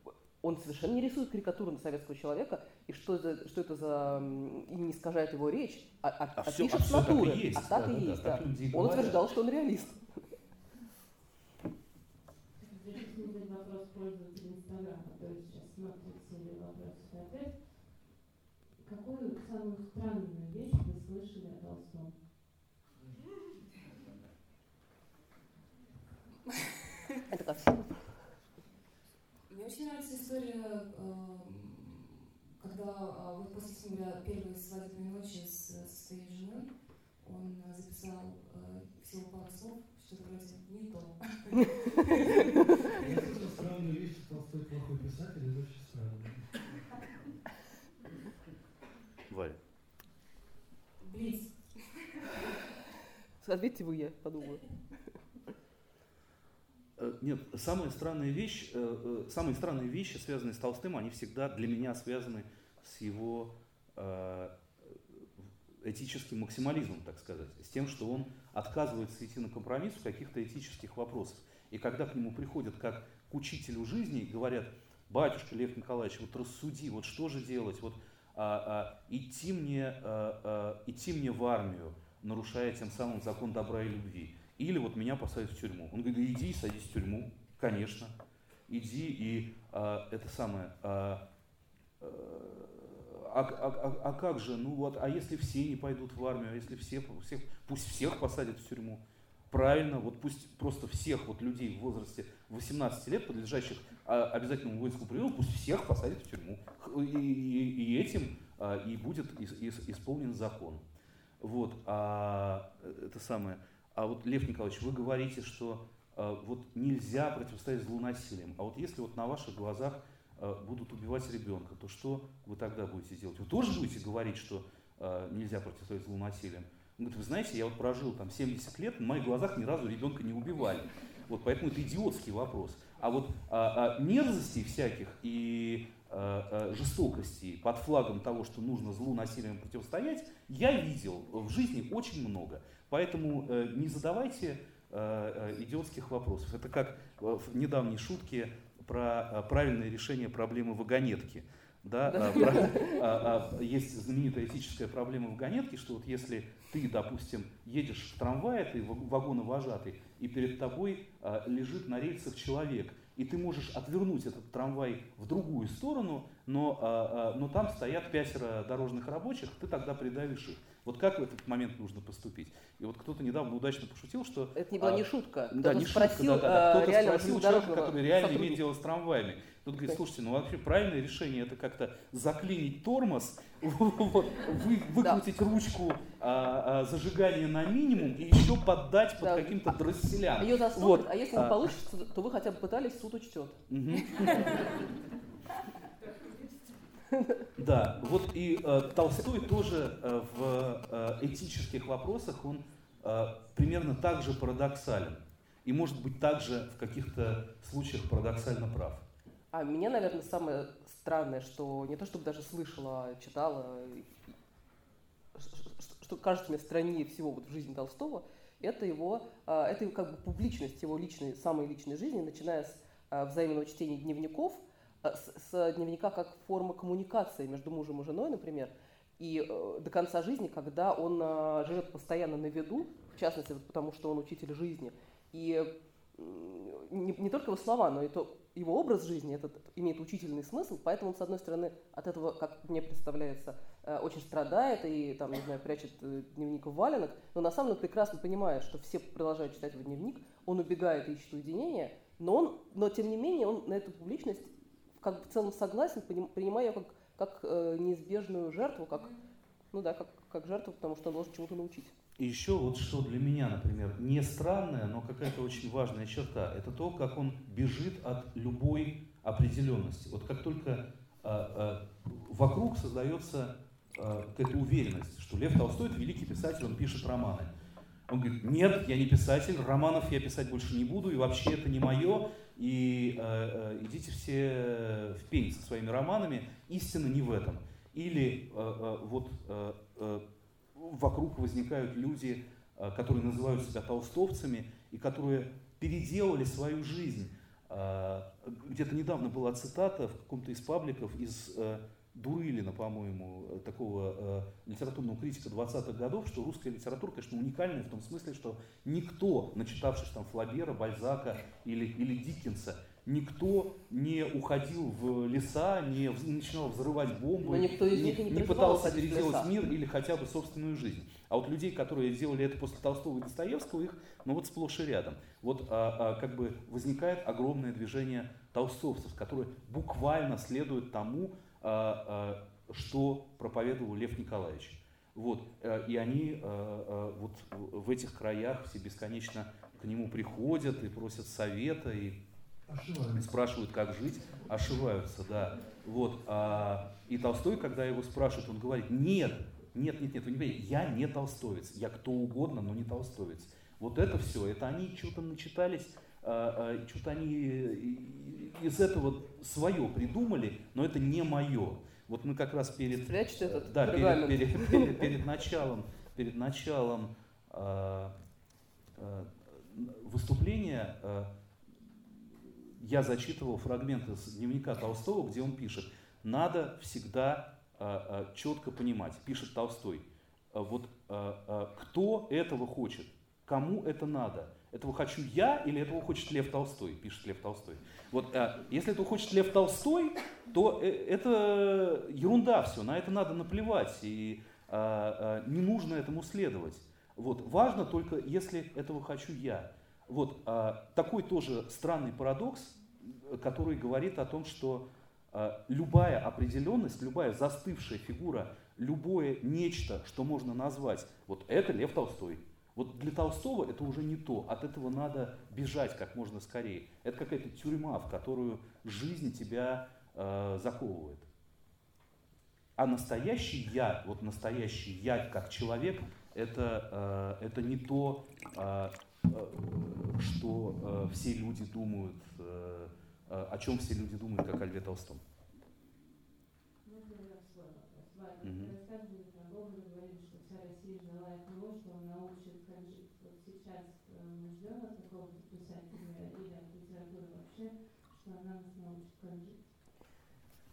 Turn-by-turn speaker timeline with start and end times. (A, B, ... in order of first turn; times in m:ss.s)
0:00.4-0:10.3 A
0:06.4-0:09.2 B
0:12.6-0:17.7 C
0:18.8-0:22.2 C
0:27.3-0:28.3 A
0:29.5-0:36.7 D
0:37.2-0:42.5 D
0:43.0-0:46.5 E
0:49.3-0:49.6 B
0:51.0-0:51.9 D
0:53.4-0:54.8 A
0:57.0-1:04.5 B
1:05.8-1:28.1 B
1:28.7-1:31.2 B
1:32.0-1:50.8 B
1:51.4-3:11.8 B
2:32.1-2:33.0 A
2:54.6-2:58.6 A
3:05.0-3:05.2 A
3:09.2-3:09.8 A
3:10.4-3:13.6 A
3:13.7-3:14.7 B
3:17.1-3:17.5 A
3:17.6-3:29.0 B
3:29.5-3:34.1 A
3:35.4-4:19.1 A
4:18.9-4:19.2 D
4:19.7-4:21.9 A
4:22.2-4:37.5 B
4:38.1-4:50.2 B
4:50.8-5:42.2 B
5:17.4-5:19.5 A
5:42.7-5:43.3 E
5:43.1-6:08.1 B
6:03.1-6:05.1 A
6:09.0-6:11.3 B
6:12.5-7:01.3 B
7:02.8-7:15.2 B
7:16.8-7:29.7 C
7:18.4-7:18.7 B